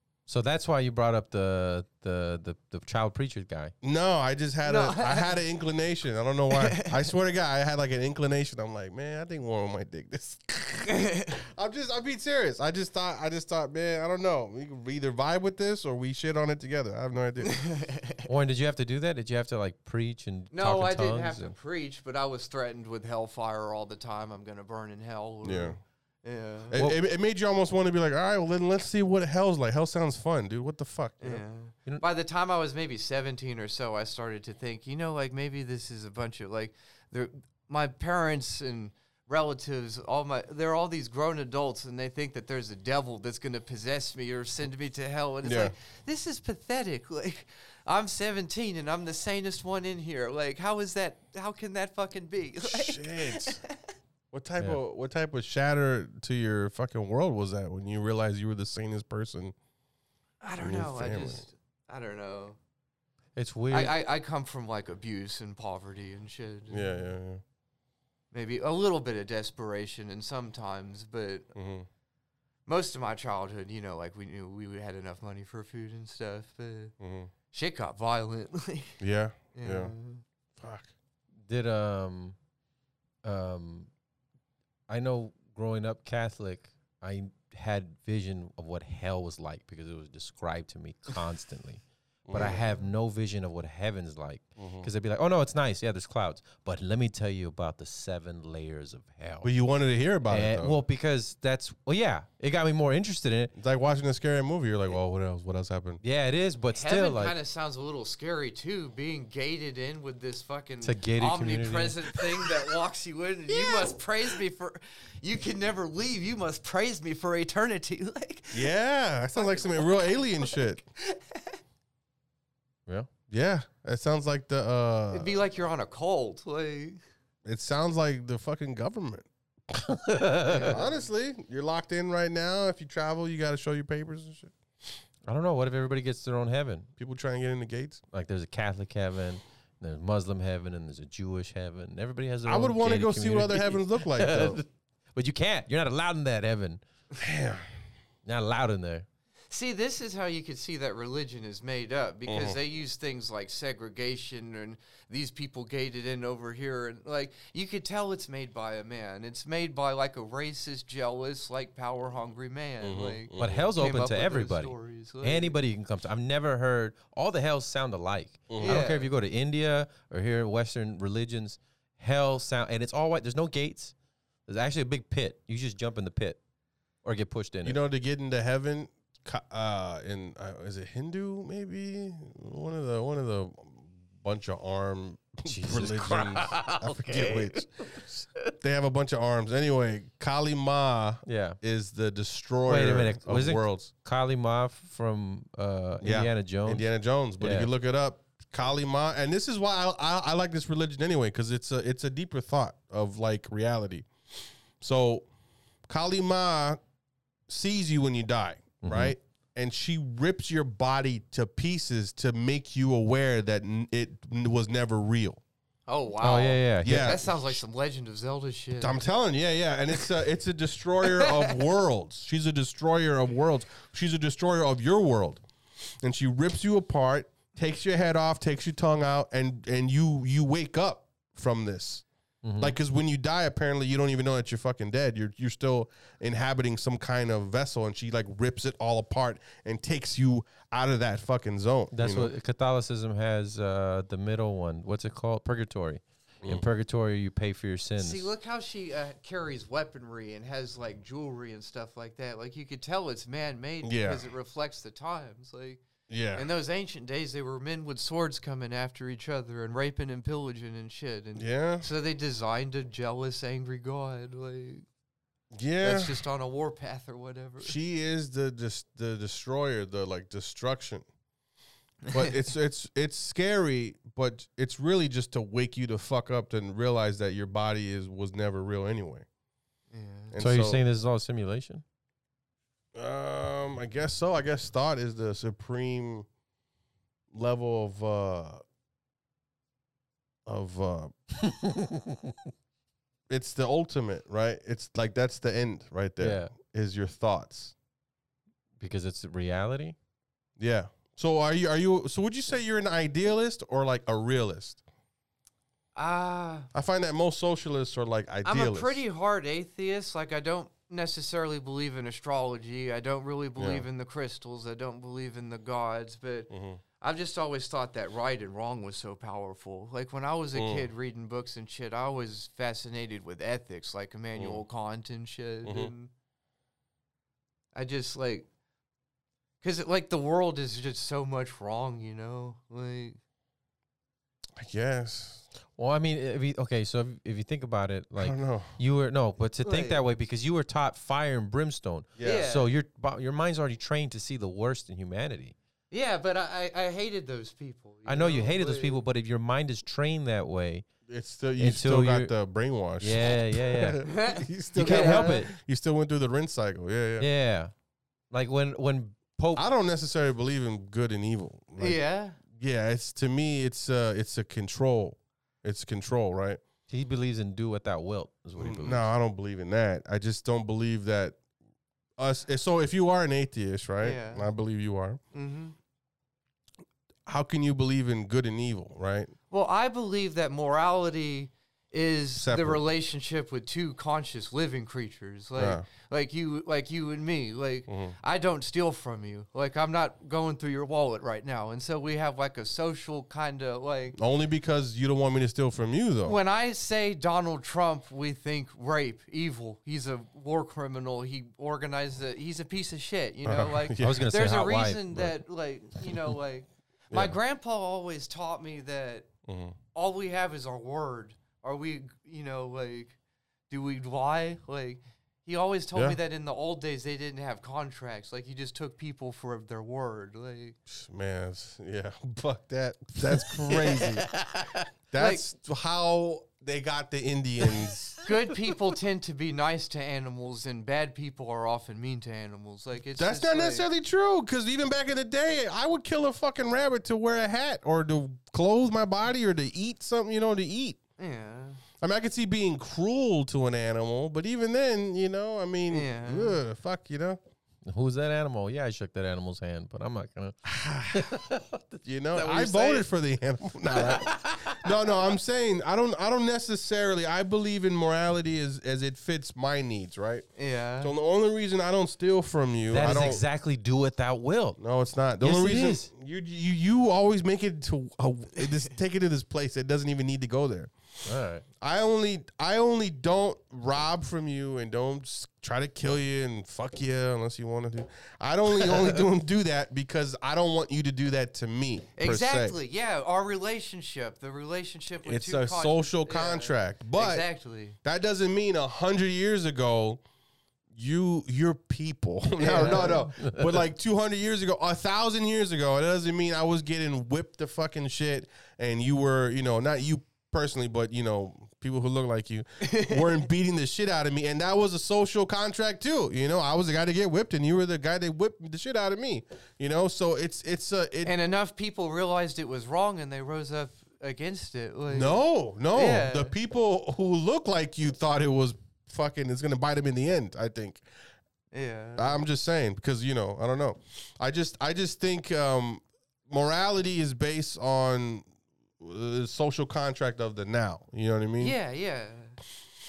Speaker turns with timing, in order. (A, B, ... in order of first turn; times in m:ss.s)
0:00.3-0:03.7 A
0:03.8-0:17.6 B
0:04.6-0:05.4 C
0:06.5-0:07.1 C
0:10.9-0:11.4 C
0:17.4-0:18.2 C
0:18.2-0:21.5 A
0:20.5-0:26.7 C
0:25.4-0:25.8 B
0:26.7-0:31.4 B
0:26.7-0:27.0 A
0:31.2-0:53.7 C
0:45.4-0:45.7 B
0:52.6-0:53.6 B
0:54.3-0:59.5 B
1:00.4-1:02.6 C
1:00.6-1:01.4 B
1:03.4-1:04.0 A
1:03.7-1:07.0 C
1:06.7-1:07.4 B
1:08.3-1:11.5 C
1:11.5-1:11.9 B
1:12.6-1:16.9 C
1:17.0-1:17.3 B
1:17.5-1:19.0 C
1:19.0-1:19.9 B
1:19.5-1:20.2 C
1:20.6-1:20.9 B
1:21.5-1:22.4 A
1:23.2-1:23.9 A
1:24.9-1:39.5 A
1:32.3-1:32.6 B
1:32.4-1:32.8 C
1:34.6-1:34.9 B
1:39.4-1:40.8 B
1:40.3-1:43.5 A
1:43.5-1:46.0 B
1:46.0-1:47.3 A
1:46.7-1:58.7 C
1:50.8-1:52.5 A
1:58.5-2:00.8 B
1:59.3-2:01.6 C
2:03.3-2:05.4 B
2:05.1-2:07.0 C
2:07.4-2:09.3 B
2:09.7-2:10.8 A
2:10.4-2:11.0 C
2:10.6-2:14.5 B
2:15.2-2:16.9 A
2:17.0-2:18.0 B
2:18.1-2:26.8 A
2:22.4-2:24.6 B
2:27.2-2:27.7 B
2:28.2-2:29.0 A
2:29.5-2:45.6 C
2:32.3-2:32.6 B
2:42.8-2:43.7 B
2:43.4-2:53.9 A
2:48.5-2:48.8 B
2:48.6-2:49.1 C
2:54.5-2:56.4 A
2:57.0-2:57.8 A
2:57.6-3:08.0 B
3:05.5-3:08.5 A
3:08.6-3:13.9 B
3:11.2-3:11.6 A
3:12.7-3:16.8 A
3:16.0-3:24.1 B
3:17.4-3:17.7 A
3:24.8-3:25.3 B
3:25.9-3:26.8 B
3:27.5-3:35.4 B
3:28.8-3:29.1 A
3:35.9-3:39.0 C
3:36.2-3:37.2 A
3:36.8-3:37.5 B
3:38.8-3:45.4 B
3:41.0-3:41.6 C
3:46.0-3:52.0 B
3:52.4-3:52.7 A
3:52.6-4:02.3 B
4:01.9-4:08.3 A
4:08.0-4:15.8 C
4:13.8-4:14.2 B
4:16.1-4:16.5 B
4:16.3-4:24.8 C
4:21.4-4:21.9 B
4:25.5-4:26.2 B
4:25.8-4:27.8 C
4:27.6-4:31.1 B
4:32.1-4:32.3 C
4:32.1-4:39.2 B
4:39.9-4:40.3 C
4:40.3-4:40.8 B
4:40.4-4:41.8 A
4:42.9-4:46.3 B
4:47.3-4:48.6 B
4:50.4-4:51.1 B
4:51.4-4:52.4 A
4:53.3-4:57.7 B
4:56.2-4:56.5 A
4:58.8-5:00.0 A
5:00.6-5:04.8 B
5:06.0-5:06.7 C
5:06.7-5:09.0 B
5:08.4-5:16.5 C
5:13.6-5:13.8 B
5:16.5-5:16.8 B
5:17.0-5:26.1 C
5:20.5-5:20.9 B
5:24.4-5:24.6 B
5:25.6-5:25.9 B
5:27.7-5:28.4 C
5:29.6-5:33.2 C
5:34.6-5:35.5 B
5:35.8-5:45.5 A
5:38.2-5:38.7 B
5:39.6-5:40.0 C
5:42.2-5:42.5 B
5:42.2-5:42.7 C
5:45.9-5:49.0 C
5:48.0-5:50.9 A
5:51.1-5:57.3 B
5:51.6-5:52.3 A
5:53.0-5:54.1 A
5:54.0-5:55.5 C
5:54.7-5:55.5 A
5:57.2-5:57.7 A
5:58.3-5:59.6 A
5:59.6-6:06.6 B
6:01.8-6:02.4 C
6:06.9-6:09.1 A
6:08.6-6:11.4 B
6:12.2-6:15.2 B
6:14.0-6:14.5 C
6:15.3-6:15.7 C
6:17.2-6:19.3 B
6:19.5-6:34.2 C
6:22.4-6:22.8 B
6:25.6-6:25.8 B
6:27.9-6:28.2 B
6:34.2-6:36.4 B
6:36.2-6:49.3 C
6:43.4-6:44.3 B
6:44.0-6:45.3 A
6:49.5-6:49.8 B
6:49.9-6:53.2 C
6:53.7-7:00.8 C
7:00.9-7:04.4 B
7:03.3-7:04.8 A
7:05.1-7:08.2 B
7:05.2-7:05.4 C
7:07.8-7:08.2 A
7:08.2-7:13.9 C
7:13.2-7:21.0 B
7:21.2-7:21.8 C
7:22.0-7:27.4 B
7:25.9-7:26.6 C
7:27.8-7:33.0 A
7:30.6-7:31.3 B
7:32.0-7:40.5 B
7:33.9-7:35.0 A
7:40.6-7:41.1 C
7:41.0-7:43.4 B
7:42.9-7:44.8 A
7:44.8-8:02.8 B
7:45.4-7:46.1 A
7:51.2-7:51.6 A
8:02.1-8:08.0 C
8:05.2-8:07.5 B
8:08.0-8:10.2 B
8:10.9-8:31.3 B
8:12.6-8:13.2 C
8:12.8-8:13.8 A
8:22.8-8:23.4 C
8:31.2-8:35.4 C
8:35.1-8:41.0 B
8:35.9-8:36.5 C
8:41.7-8:42.4 C
8:42.2-8:48.5 B
8:49.0-8:51.8 B
8:51.6-8:52.6 C